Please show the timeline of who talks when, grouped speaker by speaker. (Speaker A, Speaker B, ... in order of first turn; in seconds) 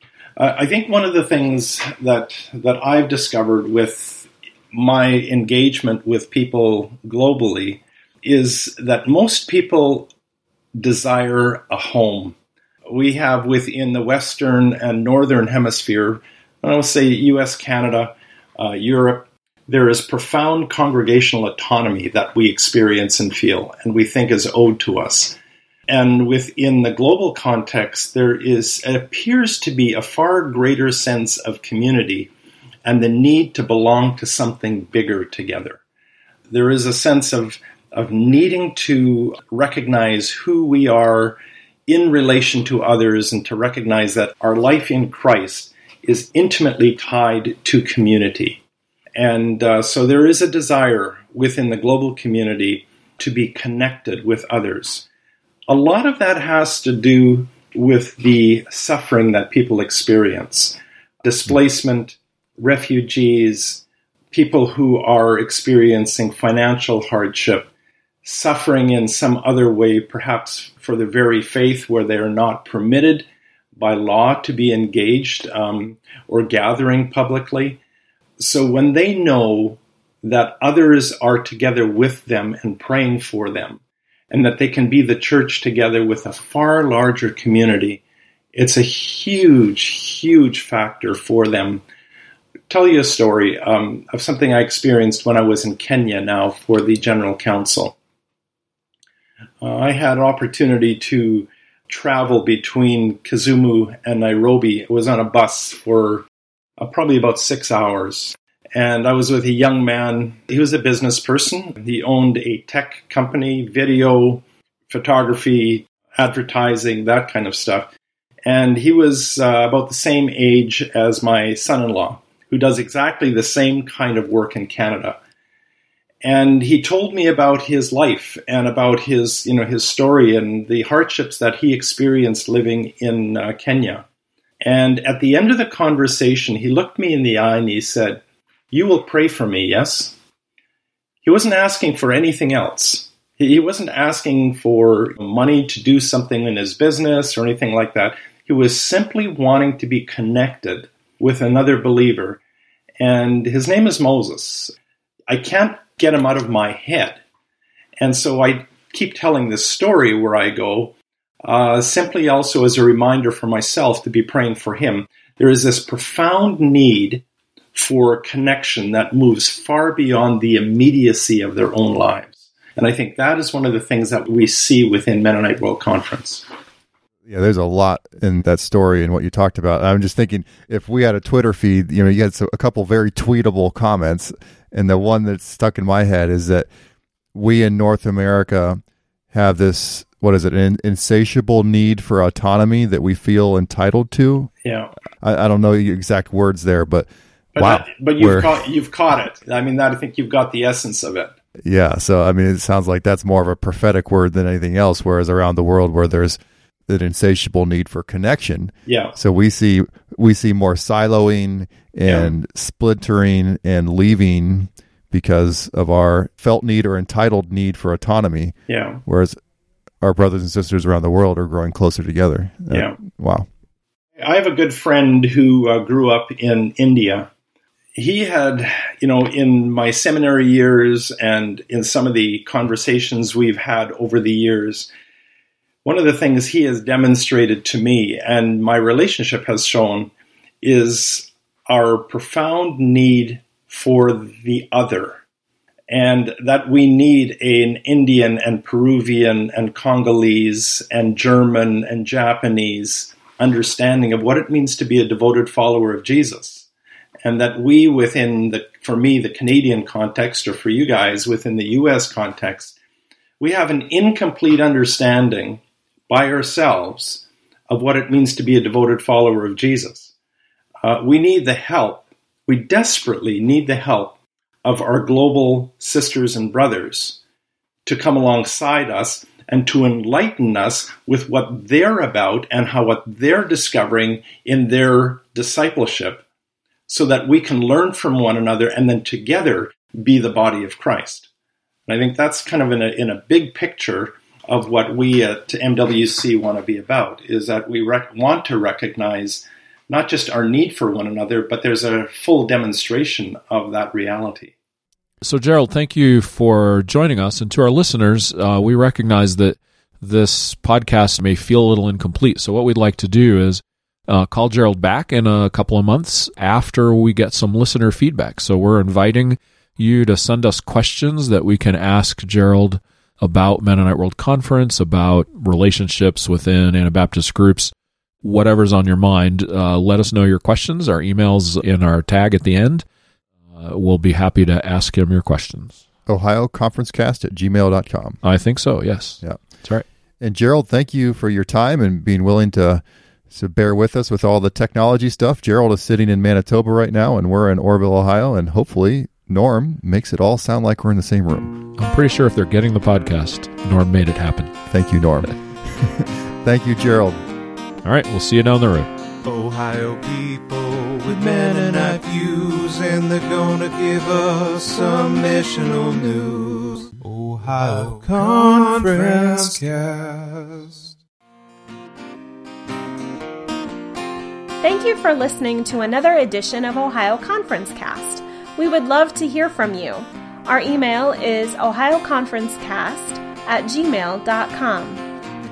Speaker A: 0.4-10.1, 10.8-12.4, 12.9-25.4, 25.9-32.3, 32.9-35.8, 36.5-48.6, 49.1-55.1, 55.7-67.7, 68.2-77.8, 78.4-88.0, 88.5-91.8, 92.7-98.0, 99.6-106.3, 106.8-117.9, 118.5-125.2, 126.2-134.1, 134.6-140.2, 141.2-152.4, 153.0-154.7, 155.3-157.2, 158.0-176.5, 194.6-194.9, 197.6-201.3, 208.9-209.2, 212.1-212.3, 218.7-219.0, 222.7-223.0, 224.2-227.3, 228.0-234.9, 235.8-245.2, 245.9-256.7, 257.2-262.8, 263.4-270.1, 270.8-277.2, 277.9-286.2, 286.9-291.3, 291.9-304.6
Speaker B: 177.3-186.7, 187.3-188.8, 189.3-194.5, 195.2-198.5, 201.7-218.6, 219.1-219.3, 220.0-223.5, 336.1-338.2, 340.2-351.6, 354.7-357.2
Speaker C: 305.2-332.9, 333.5-335.8, 338.2-339.9, 351.8-354.5, 357.8-358.9
Speaker D: 359.2-370.9
Speaker E: 374.6-385.1